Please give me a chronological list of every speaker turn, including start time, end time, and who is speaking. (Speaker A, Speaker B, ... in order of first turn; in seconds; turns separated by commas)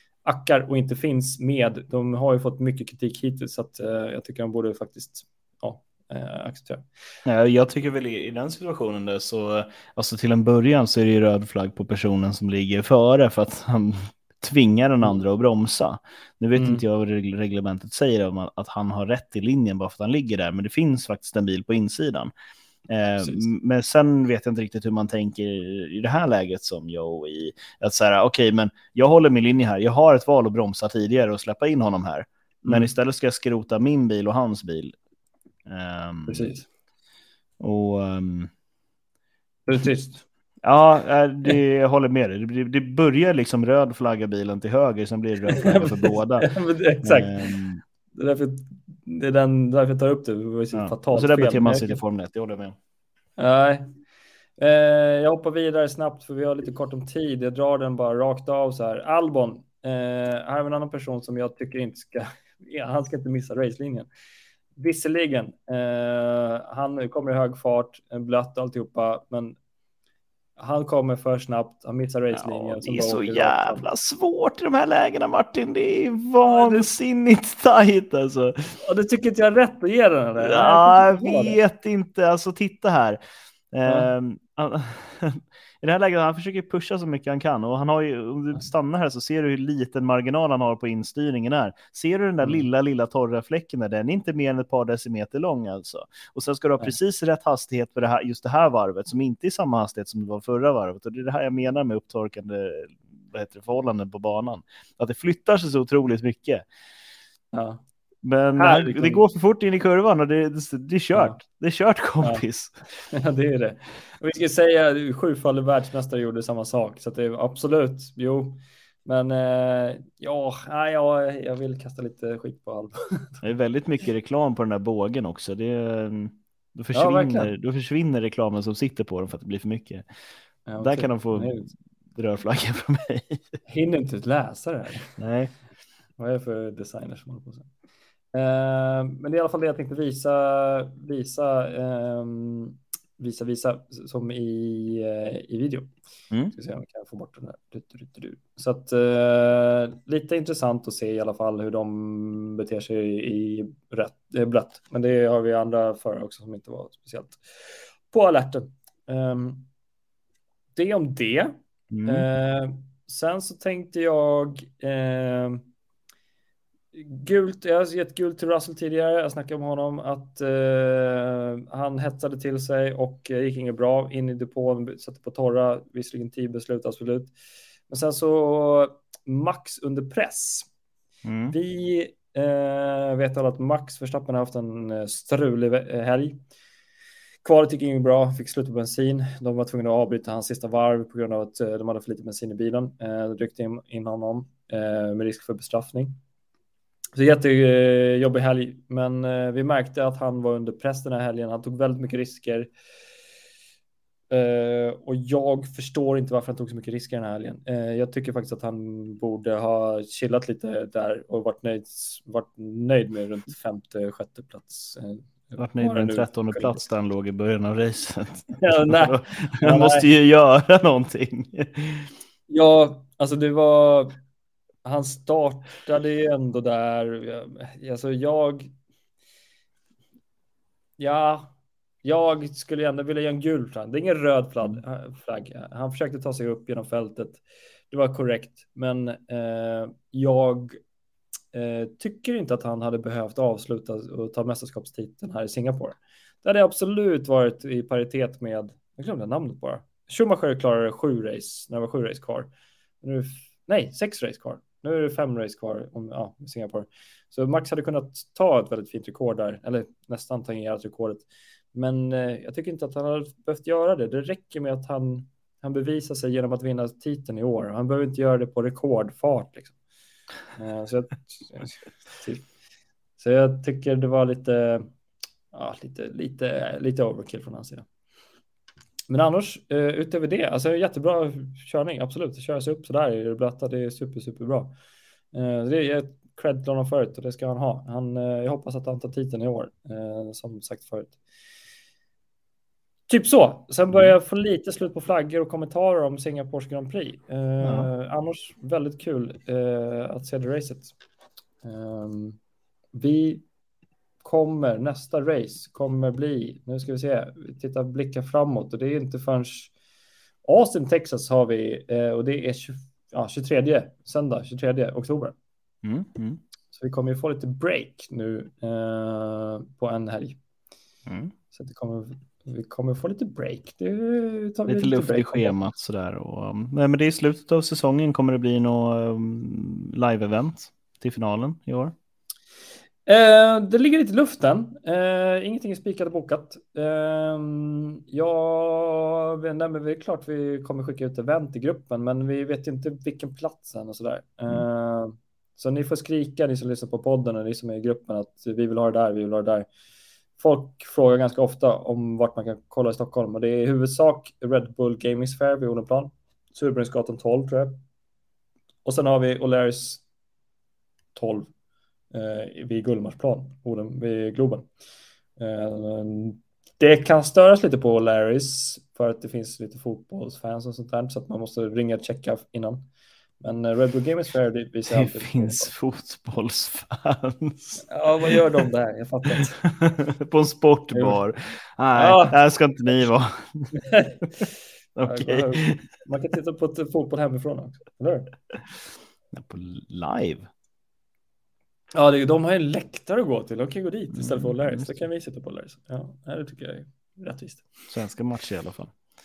Speaker A: 0.2-6.9, Speaker B: 7.2-22.3, Speaker A: 16.6-16.8, Speaker B: 22.9-34.9, Speaker A: 23.2-23.5, Speaker A: 32.6-32.9, Speaker B: 35.7-36.5, Speaker A: 36.3-36.7, Speaker B: 37.6-38.5, Speaker A: 39.7-40.2, Speaker B: 40.6-46.5, Speaker A: 45.5-47.5, Speaker B: 47.0-47.8, Speaker A: 48.1-52.0, Speaker B: 50.7-52.8, Speaker A: 53.4-53.9, Speaker A: 54.6-64.1, Speaker A: 64.8-69.6, Speaker A: 70.6-73.9, Speaker B: 72.3-78.8, Speaker A: 76.4-76.9, Speaker A: 78.8-81.6, Speaker B: 80.4-83.2, Speaker B: 83.7-106.6, Speaker A: 92.4-92.7, Speaker A: 107.5-107.8, Speaker B: 108.2-112.8, Speaker A: 108.6-109.2, Speaker A: 111.1-111.4, Speaker A: 113.1-123.4, Speaker B: 123.4-130.1, Speaker A: 126.9-127.5, Speaker A: 130.7-131.7, Speaker B: 130.8-131.6, Speaker B: 132.2-133.4, Speaker A: 133.7-135.2, Speaker B: 135.2-135.5, Speaker A: 136.2-137.7, Speaker A: 138.3-145.9, Speaker A: 146.5-159.7, Speaker A: 160.8-165.6, Speaker B: 161.9-162.2, Speaker A: 166.9-177.3, Speaker A: 177.9-180.7, Speaker B: 181.2-181.6, Speaker A: 181.5-186.4, Speaker A: 187.4-196.2, Speaker A: 197.2-202.7, Speaker A: 204.3-216.8, Speaker B: 215.6-222.1, Speaker A: 218.6-220.1, Speaker A: 222.5-224.2, Speaker A: 224.8-228.7, Speaker A: 231.0-231.5, Speaker A: 232.0-240.8, Speaker A: 241.5-252.5, Speaker A: 253.0-269.8, Speaker A: 270.6-272.5, Speaker A: 273.2-274.9, Speaker A: 275.5-277.9, Speaker A: 279.1-284.8, Speaker A: 285.3-291.2, Speaker A: 293.1-300.9, Speaker B: 297.6-297.9, Speaker A: 301.6-302.4, Speaker A: 302.9-303.4, Speaker A: 304.2-309.7, Speaker A: 310.4-315.4, Speaker B: 315.8-316.4, Speaker A: 316.7-320.4, Speaker B: 321.1-321.3, Speaker A: 321.5-325.6, Speaker B: 324.7-331.9, Speaker A: 333.1-349.7, Speaker A: 350.4-357.8, Speaker A: 358.9-360.0, Speaker A: 361.1-361.5, Speaker A: 362.1-364.7, Speaker A: 365.4-372.9, Speaker A: 373.4-375.7, Speaker B: 374.9-378.4, Speaker A: 377.9-379.6, Speaker B: 379.3-383.7, Speaker A: 380.9-381.2, Speaker A: 382.0-382.4, Speaker A: 383.7-384.2, Speaker B: 385.0-385.8, Speaker A: 385.1-388.4, Speaker B: 389.3-390.5, Speaker A: 391.9-397.6, Speaker B: 394.1-395.0, Speaker B: 397.9-398.9